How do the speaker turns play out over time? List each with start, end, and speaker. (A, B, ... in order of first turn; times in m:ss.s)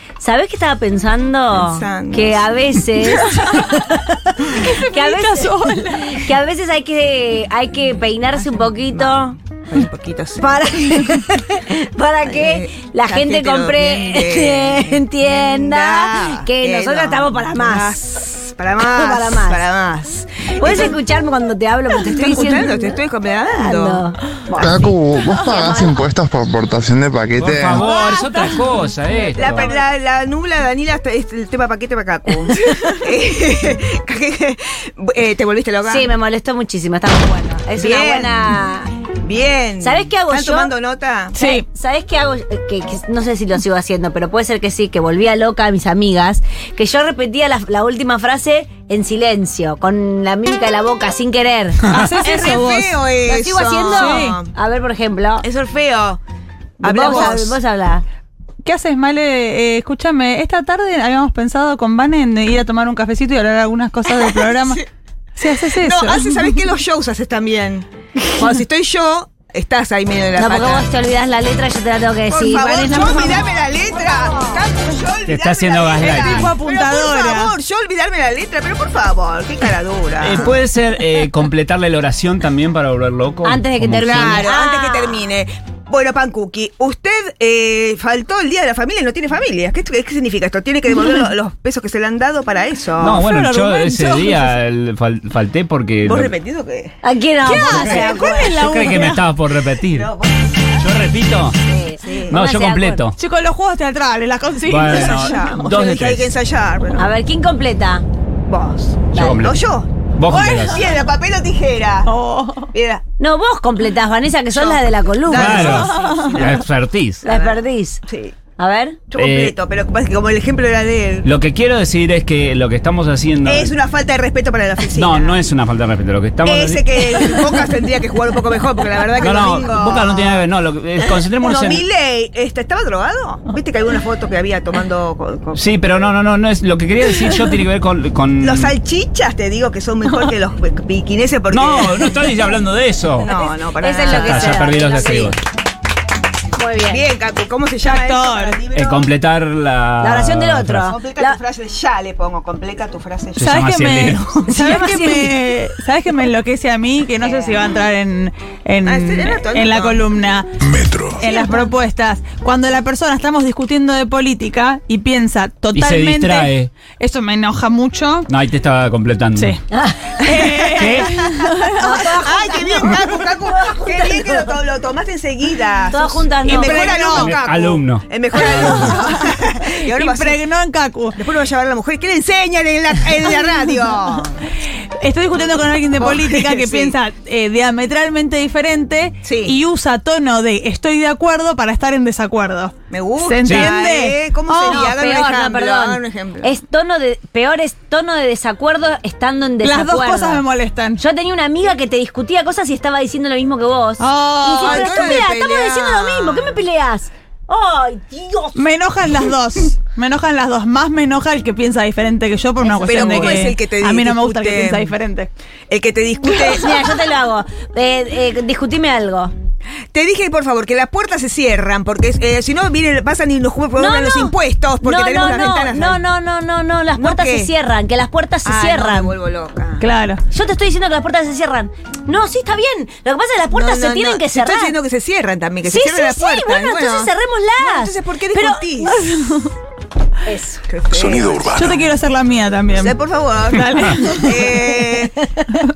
0:00.2-0:09.3 A
0:01.5-0:02.9 B
0:03.4-0:03.7 C
0:04.4-0:06.3 C
0:08.4-0:10.5 B
0:10.4-0:18.0 A
0:12.2-0:21.0 B
0:18.9-0:19.6 A
0:20.6-0:23.0 A
0:22.1-0:24.1 B
0:23.5-0:26.0 A
0:24.6-0:27.9 D
0:27.4-0:29.8 E
0:27.8-0:28.7 C
0:29.4-0:36.1 B
0:35.8-0:38.9 A
0:37.8-0:38.6 B
0:39.2-0:41.4 B
0:39.8-0:40.7 A
0:41.4-0:41.7 C
0:41.4-0:51.8 A
0:51.9-0:52.9 C
0:52.2-0:54.5 B
0:53.2-0:55.5 A
0:53.9-0:54.4 C
0:55.4-0:56.2 B
0:56.8-0:57.6 B
0:56.8-0:58.0 A
0:58.6-1:04.8 C
1:04.1-1:04.8 B
1:05.4-1:06.6 C
1:05.7-1:10.9 B
1:10.4-1:14.6 A
1:12.3-1:20.6 B
1:15.3-1:16.6 E
1:16.0-1:17.5 C
1:20.2-1:24.4 E
1:23.4-1:25.3 A
1:24.0-1:33.2 B
1:33.0-1:36.3 E
1:33.1-1:34.6 C
1:36.0-1:37.0 B
1:37.0-1:38.6 A
1:37.4-1:39.3 C
1:37.5-1:40.1 E
1:39.8-1:41.0 B
1:40.8-1:41.6 E
1:41.7-1:43.1 A
1:42.0-1:42.4 B
1:42.3-1:43.2 E
1:43.2-1:45.3 C
1:44.7-1:46.4 E
1:44.9-1:47.1 B
1:47.0-1:48.0 A
1:48.5-1:52.1 B
1:49.1-1:49.4 A
1:49.1-1:49.6 E
1:50.2-1:50.8 E
1:50.3-1:50.8 C
1:52.1-1:52.7 C
1:52.7-1:53.0 B
1:53.2-1:55.9 A
1:54.5-1:56.6 B
1:55.3-1:57.2 E
1:57.2-1:58.0 A
1:57.2-1:58.4 B
1:58.6-1:59.0 A
1:59.1-2:01.3 B
1:59.2-1:59.6 E
2:01.2-2:03.8 E
2:03.4-2:05.4 B
2:04.9-2:07.6 E
2:06.4-2:10.5 B
2:09.2-2:11.8 E
2:11.0-2:15.6 B
2:15.5-2:18.8 E
2:18.4-2:22.3 B
2:21.5-2:23.3 E
2:23.2-2:25.3 B
2:23.2-2:25.4 A
2:24.1-2:25.4 E
2:26.6-2:27.0 A
2:26.9-2:29.1 B
2:27.8-2:28.6 C
2:28.7-2:30.9 E
2:30.0-2:31.4 A
2:30.8-2:33.5 B
2:33.4-2:34.4 E
2:33.4-2:40.5 C
2:34.5-2:35.3 A
2:37.2-2:37.5 A
2:38.8-2:40.1 B
2:40.7-2:41.2 D
2:41.2-2:48.3 C
2:45.8-2:46.7 E
2:48.3-2:49.6 E
2:49.4-2:49.6 C
2:49.7-2:51.1 A
2:50.2-2:52.1 C
2:50.8-2:51.2 E
2:51.8-2:54.5 A
2:52.2-3:00.4 B
2:55.9-2:56.9 A
2:56.6-2:59.0 E
2:56.6-2:57.4 C
2:59.1-3:01.2 C
3:01.2-3:04.4 B
3:05.0-3:14.9 C
3:06.0-3:07.0 B
3:09.2-3:09.6 B
3:12.9-3:16.5 B
3:13.4-3:13.7 E
3:14.7-3:20.4 A
3:19.6-3:21.0 C
3:21.0-3:28.6 A
3:24.0-3:25.1 C
3:24.6-3:26.6 B
3:28.6-3:35.3 C
3:32.6-3:34.9 B
3:32.9-3:33.5 A
3:35.7-3:37.0 B
3:36.4-3:39.3 A
3:39.9-3:46.0 B
3:43.8-3:49.1 A
3:47.0-3:47.5 B
3:48.4-3:49.9 B
3:49.8-3:50.2 C
3:50.3-3:54.8 A
3:53.5-3:59.0 B
3:55.6-3:58.9 A
3:59.0-3:59.5 C
4:00.3-4:00.6 A
4:00.7-4:01.7 B
4:00.9-4:01.8 D
4:01.5-4:03.0 C
4:02.8-4:05.2 B
4:03.5-4:04.5 C